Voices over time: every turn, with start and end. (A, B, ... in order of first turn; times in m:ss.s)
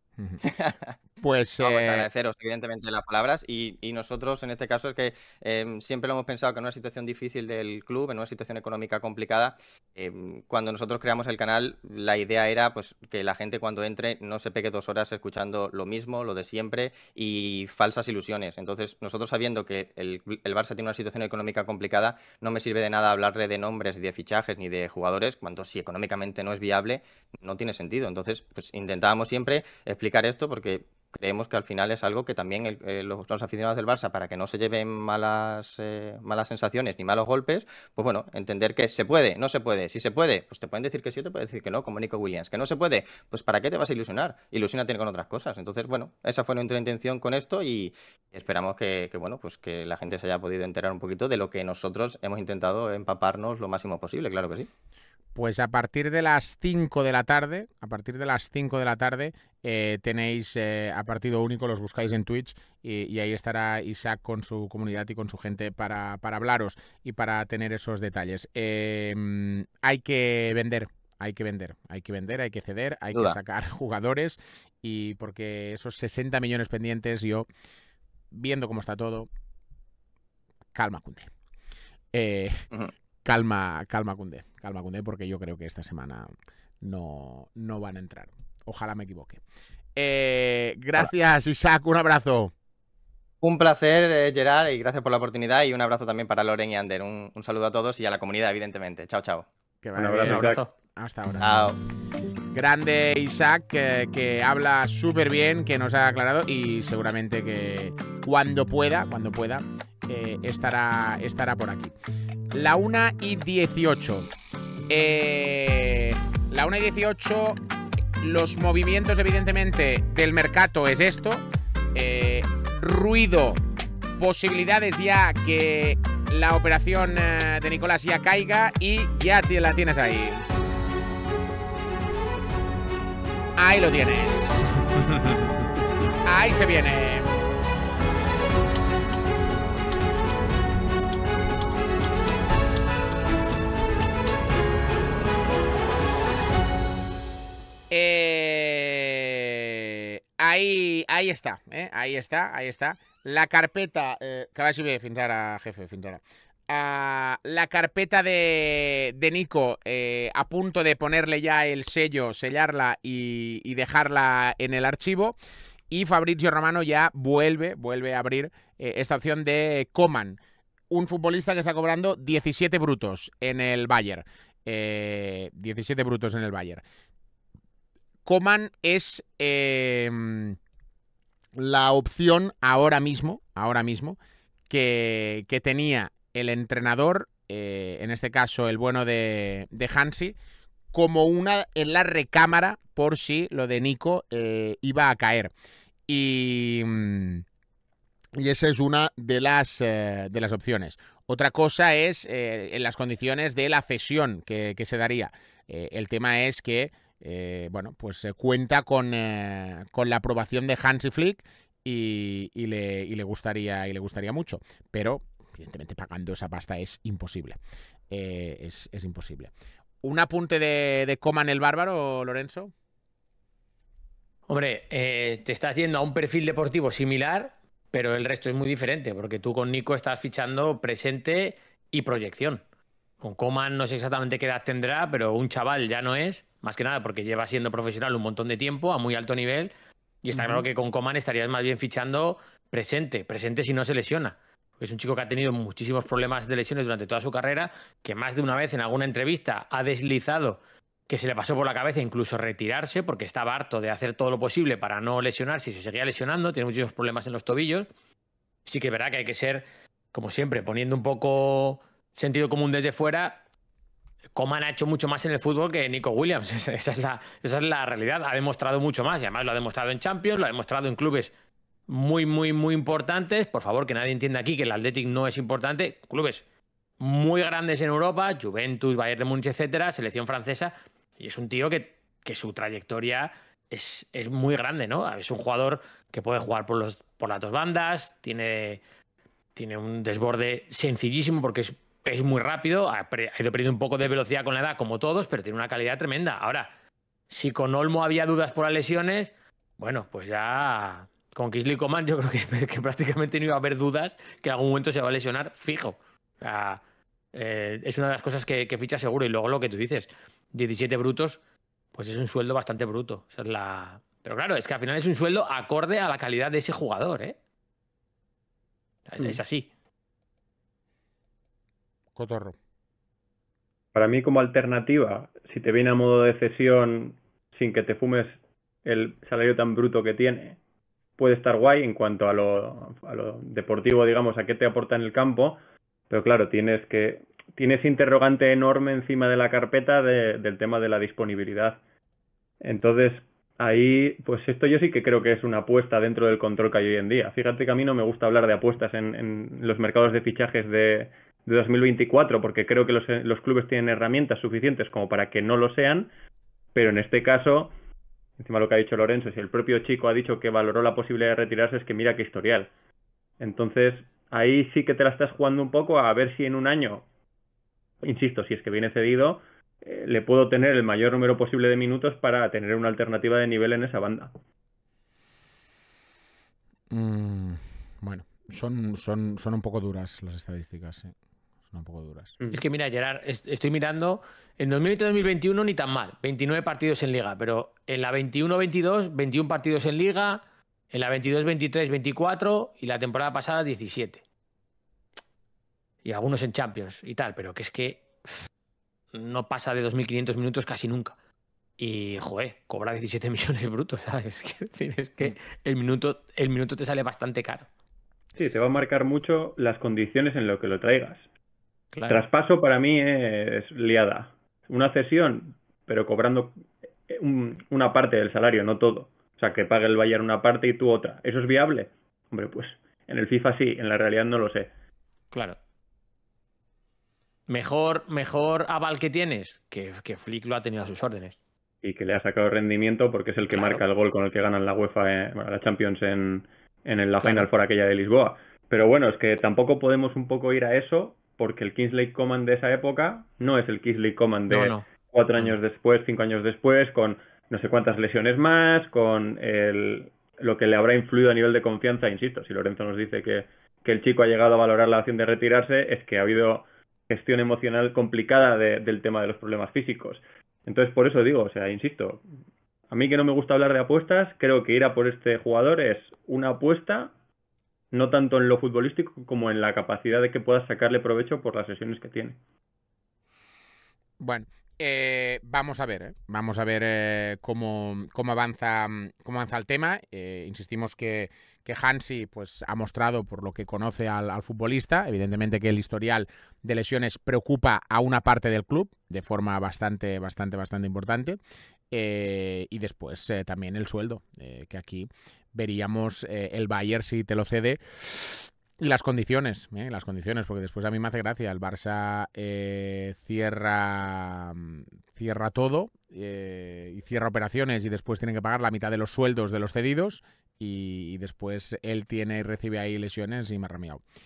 0:00.4-0:01.0 A
0:01.2-0:02.1 B
0:01.6-0:54.7 A
0:55.4-1:17.5 B
1:13.1-1:13.4 A
1:18.3-1:19.3 B
1:20.7-1:21.3 B
1:22.1-1:22.7 B
1:23.2-1:29.4 B
1:30.0-1:32.5 B
1:33.4-1:39.5 A
1:39.8-1:41.6 B
1:40.0-1:40.6 C
1:40.2-1:40.7 D
1:41.4-1:41.8 A
1:42.5-1:51.9 B
1:52.5-1:54.3 B
1:54.9-1:57.6 B
1:58.2-2:03.6 B
2:04.2-2:10.4 B
2:13.6-2:14.8 B
2:16.2-2:17.3 B
2:27.9-2:45.4 B
2:45.9-2:50.4 B
2:50.9-2:56.8 B
2:58.2-3:00.6 B
3:01.6-3:04.2 B
3:04.7-3:10.4 B
3:10.9-3:15.5 B
3:16.1-3:17.4 B
3:18.4-3:37.6 B
3:38.1-3:39.5 B
3:40.0-3:42.7 B
3:44.5-3:52.6 D
3:53.2-3:59.7 D
4:00.2-4:17.9 D
4:00.3-4:00.6 C
4:18.7-4:23.4 D
4:24.4-4:31.3 D
4:31.9-4:36.4 D
4:37.0-4:48.8 D
4:49.6-4:56.7 D
4:57.3-5:06.8 D
5:07.3-5:11.4 D
5:11.9-5:17.4 D
5:19.1-5:19.7 D
5:22.2-5:22.6 B
5:24.0-5:30.6 C
5:31.2-5:35.6 C
5:36.1-5:41.8 C
5:42.6-5:56.1 C
5:56.8-5:57.7 C
5:58.4-6:02.7 C
6:03.4-6:07.0 C
6:08.0-6:14.3 C
6:16.9-6:21.1 B
6:21.7-6:22.3 B
6:22.5-6:34.2 D
6:36.0-6:38.4 D
6:39.1-6:41.2 D
6:41.8-6:47.7 D
6:48.4-6:51.2 C
6:51.9-6:52.2 D
6:52.1-7:04.7 C
7:05.3-7:05.6 D
7:07.5-7:11.4 D
7:11.8-7:42.2 C
7:13.5-7:13.8 D
7:17.2-7:17.5 D
7:24.5-7:24.8 D
7:42.9-7:47.1 C
7:47.9-7:52.4 C
7:54.2-8:11.4 B
8:11.9-8:34.0 B